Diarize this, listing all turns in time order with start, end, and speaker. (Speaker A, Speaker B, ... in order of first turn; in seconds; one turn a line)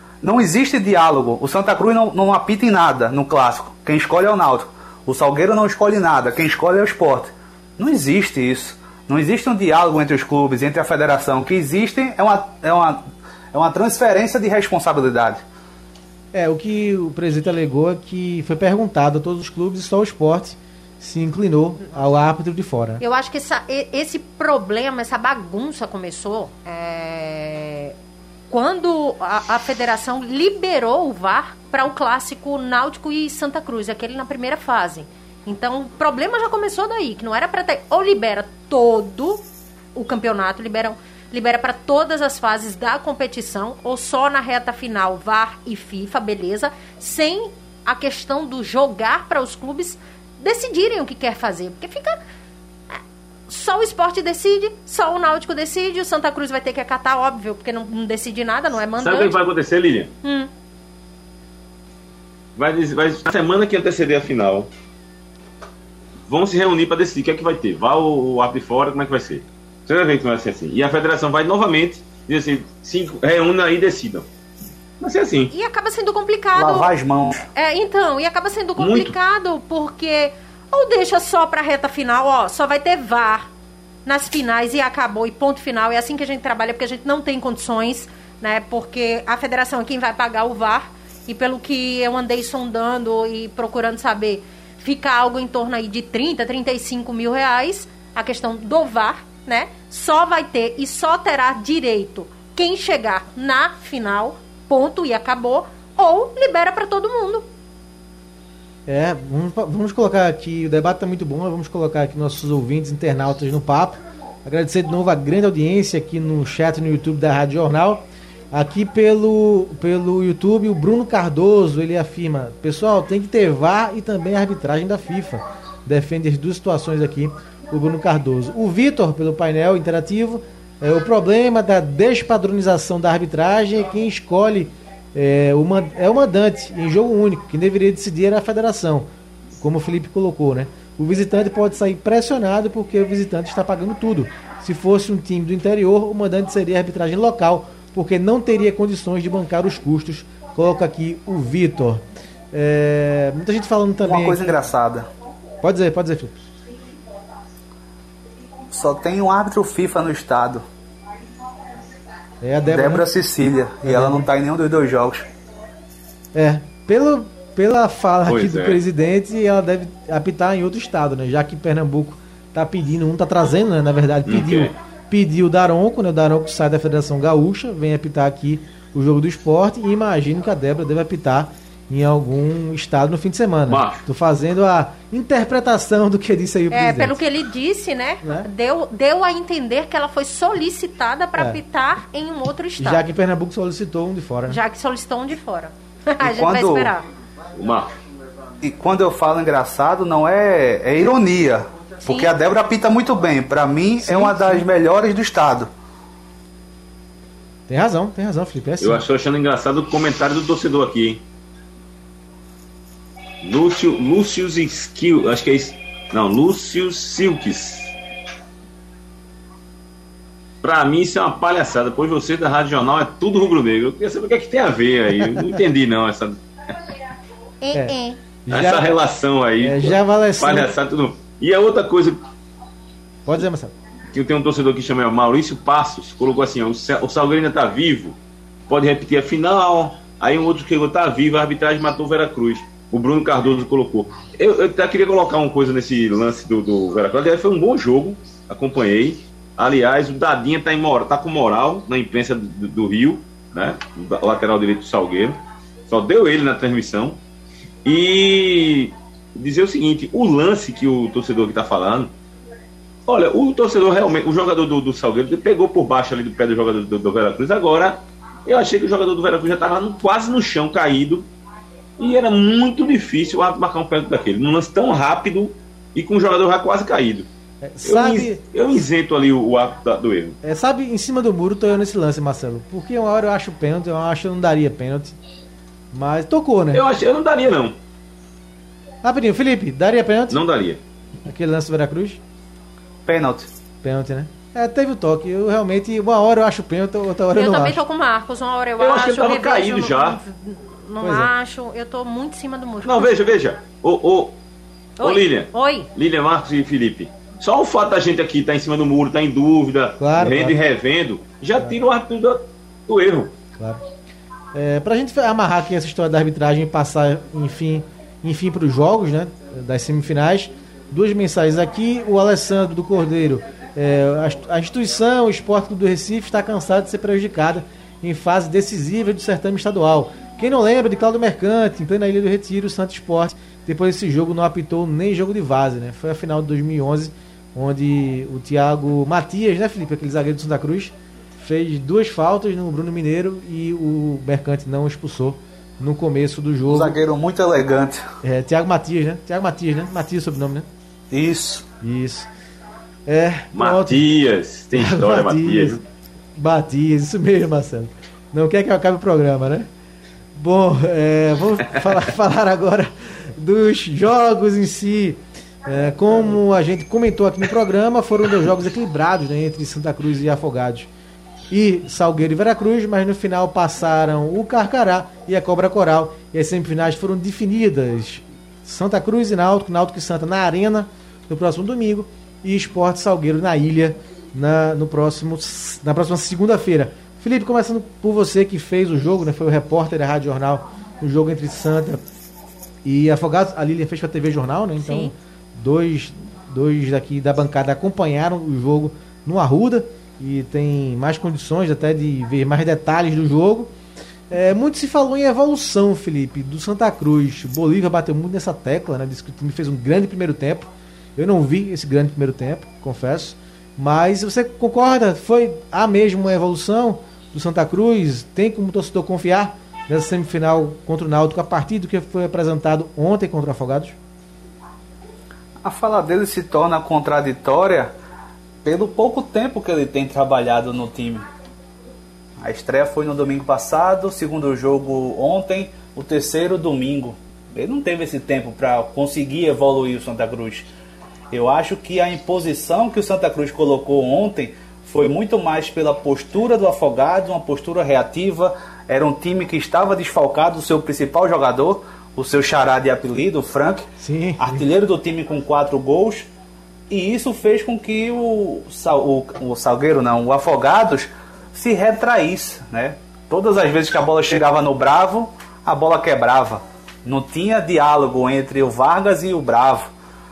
Speaker A: 0.2-13.0
Speaker A: 13.5-15.4
Speaker B: 16.3-23.0
Speaker C: 23.0-27.9
Speaker C: 28.5-39.4
Speaker C: 39.9-52.2
Speaker C: 53.5-59.4
Speaker D: 59.0-60.1
Speaker C: 60.2-60.5
Speaker D: 62.5-64.7
Speaker D: 66.3-74.3
Speaker D: 75.0-75.5
Speaker C: 75.5-76.9
Speaker A: 76.5-77.5
Speaker C: 77.5-83.5
Speaker D: 78.8-79.1
Speaker C: 84.0-107.5
Speaker B: 108.9-139.1
Speaker B: 139.6-154.6
Speaker A: 154.0-155.1
Speaker B: 155.6-156.4
Speaker A: 158.7-160.6
Speaker B: 162.4-163.1
Speaker A: 162.7-165.3
Speaker B: 163.8-164.2
Speaker B: 166.3-187.2
Speaker D: 168.2-168.8
Speaker D: 174.3-174.7
Speaker D: 183.7-184.0
Speaker C: 186.7-193.0
Speaker B: 188.2-188.5
Speaker B: 192.8-194.6
Speaker C: 194.5-197.0
Speaker A: 196.2-196.9
Speaker D: 197.6-197.9
Speaker A: 198.6-205.7
Speaker C: 202.1-202.3
Speaker B: 204.0-204.7
Speaker B: 207.7-209.0
Speaker D: 208.8-211.2
Speaker D: 213.4-217.9
Speaker D: 220.6-226.4
Speaker C: 227.6-228.2
Speaker B: 228.4-228.9
Speaker D: 228.5-232.2
Speaker B: 229.6-230.7
Speaker B: 233.2-233.7
Speaker D: 234.1-238.2
Speaker D: 238.7-257.2
Speaker D: 257.8-262.1
Speaker D: 263.1-271.3
Speaker D: 272.0-277.3
Speaker B: 277.6-278.4
Speaker D: 277.8-280.4
Speaker B: 280.4-285.2
Speaker B: 285.9-286.8
Speaker D: 286.7-287.8
Speaker B: 289.0-290.4
Speaker D: 290.3-290.8
Speaker B: 291.2-292.2
Speaker A: 293.1-293.5
Speaker B: 293.8-297.8
Speaker C: 297.3-303.1
Speaker D: 298.8-300.2
Speaker B: 301.0-301.3
Speaker D: 302.8-304.4
Speaker C: 305.0-305.9
Speaker D: 305.0-313.3
Speaker B: 310.0-310.6
Speaker B: 314.5-347.0
Speaker A: 346.7-348.0
Speaker B: 348.2-350.7
Speaker A: 351.1-351.7
Speaker B: 351.8-352.3
Speaker B: 353.1-354.0
Speaker D: 353.5-355.8
Speaker B: 354.7-355.8
Speaker B: 356.4-359.7
Speaker B: 360.3-370.9
Speaker B: 371.5-392.0
Speaker B: 392.8-403.7
Speaker C: 394.8-395.1
Speaker B: 404.3-423.9
Speaker A: 425.6-427.9
Speaker A: 428.6-431.2
Speaker A: 432.4-440.7
Speaker A: 441.3-456.3
Speaker B: 454.0-454.7
Speaker A: 456.9-469.9